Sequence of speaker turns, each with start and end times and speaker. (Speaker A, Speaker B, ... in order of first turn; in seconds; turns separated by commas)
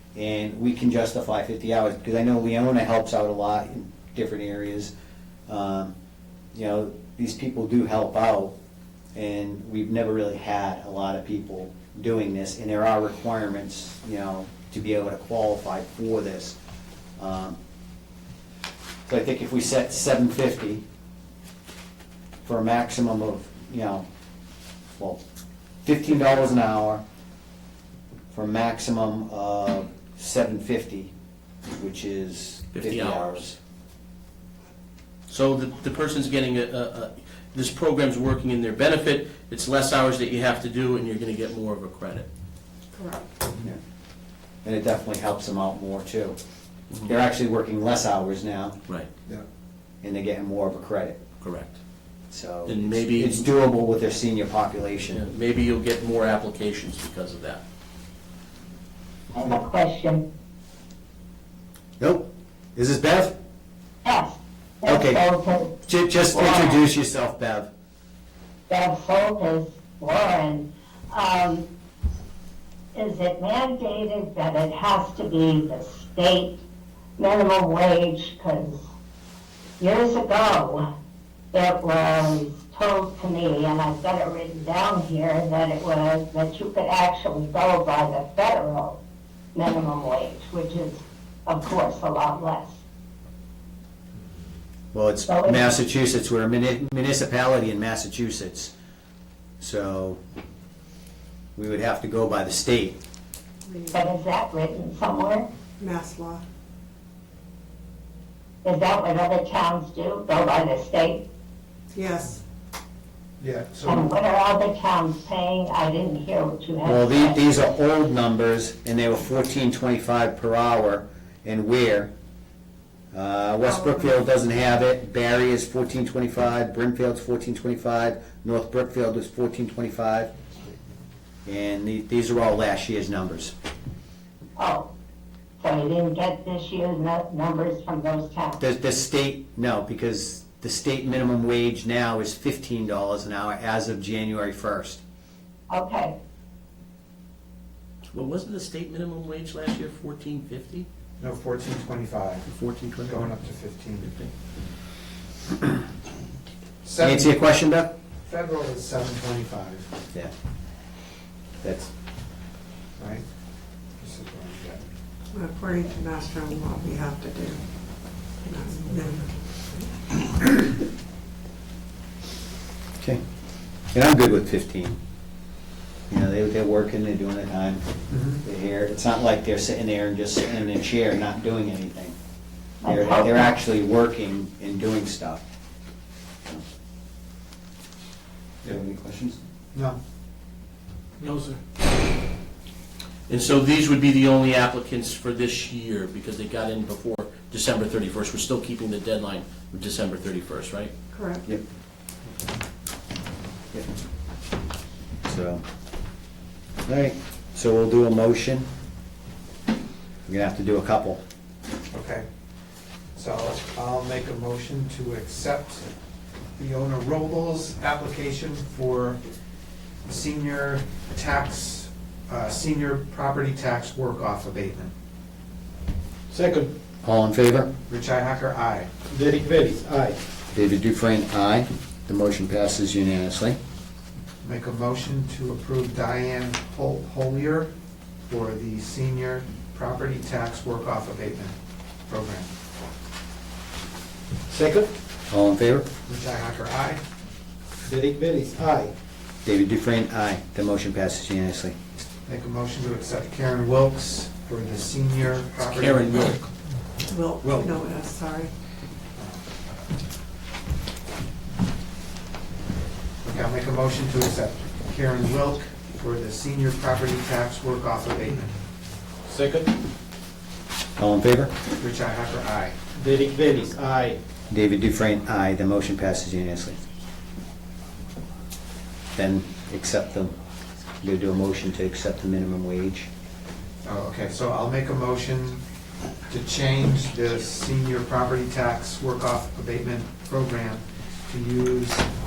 Speaker A: 0.1-4.9, Speaker A: 5.5-5.9, Speaker A: 6.5-8.5, Speaker A: 9.1-16.6, Speaker A: 17.2-17.6, Speaker A: 19.1-20.8, Speaker A: 22.4-24.1, Speaker A: 25.8-27.0, Speaker A: 28.3-31.1, Speaker A: 31.8-33.6, Speaker B: 32.7-33.4, Speaker B: 35.3-42.3, Speaker C: 42.9-43.2, Speaker A: 44.6-46.4, Speaker A: 47.0-48.8, Speaker A: 50.0-51.2, Speaker B: 51.4-51.7, Speaker A: 52.3-55.2, Speaker B: 52.6-53.5, Speaker B: 55.1-57.6, Speaker D: 59.3-60.2, Speaker A: 62.0-63.3, Speaker D: 64.0-65.7, Speaker A: 64.9-65.2, Speaker A: 65.8-67.7, Speaker D: 66.3-66.8, Speaker D: 68.7-71.7, Speaker D: 72.9-76.6, Speaker D: 77.2-78.8, Speaker D: 79.8-80.8, Speaker D: 81.5-89.0, Speaker D: 89.5-92.8, Speaker A: 94.9-98.7, Speaker D: 95.3-95.6, Speaker A: 99.6-100.2, Speaker A: 101.5-103.0, Speaker C: 103.7-104.1, Speaker D: 103.9-105.5, Speaker C: 105.8-106.4, Speaker D: 108.6-111.2, Speaker C: 111.9-112.4, Speaker E: 113.4-114.0, Speaker D: 113.8-117.4, Speaker A: 116.8-122.1, Speaker A: 123.1-130.3, Speaker A: 131.4-133.5, Speaker D: 134.6-134.9, Speaker D: 135.6-138.6, Speaker A: 138.6-145.0, Speaker D: 145.7-146.2, Speaker B: 148.1-150.9, Speaker E: 151.2-152.5, Speaker B: 152.4-153.3, Speaker E: 153.1-154.1, Speaker B: 154.0-154.3, Speaker E: 156.8-157.3, Speaker A: 157.0-157.9, Speaker E: 158.2-159.9, Speaker A: 161.6-161.9, Speaker E: 163.0-163.2, Speaker E: 164.0-164.8, Speaker C: 165.3-167.6, Speaker C: 168.4-169.9, Speaker A: 173.9-175.0, Speaker A: 176.1-177.8, Speaker E: 178.1-178.4, Speaker A: 178.4-182.2, Speaker D: 182.8-183.5, Speaker A: 182.8-185.4, Speaker A: 188.6-189.4, Speaker F: 191.2-191.6, Speaker B: 193.3-200.9, Speaker C: 201.1-201.4, Speaker A: 205.2-205.6, Speaker A: 206.9-208.7, Speaker A: 210.3-211.2, Speaker E: 211.9-212.2, Speaker E: 213.1-215.9, Speaker E: 216.6-219.2, Speaker E: 220.1-224.9, Speaker F: 226.3-226.7, Speaker A: 227.0-227.7, Speaker E: 227.9-228.9, Speaker F: 229.1-230.2, Speaker A: 230.5-233.6, Speaker E: 234.4-237.7, Speaker E: 238.3-241.5, Speaker E: 242.1-242.5, Speaker F: 244.5-244.9, Speaker A: 245.3-245.9, Speaker E: 246.1-247.0, Speaker F: 247.8-248.9, Speaker A: 249.4-251.8, Speaker E: 252.3-256.4, Speaker B: 255.6-256.4, Speaker C: 257.1-258.5, Speaker E: 259.1-259.4, Speaker E: 263.2-268.5, Speaker F: 269.2-269.7, Speaker A: 271.0-271.5, Speaker E: 271.8-272.8, Speaker F: 272.9-274.2, Speaker A: 274.5-276.8, Speaker A: 279.1-280.3, Speaker A: 281.0-283.1, Speaker E: 283.8-285.6, Speaker E: 286.3-292.1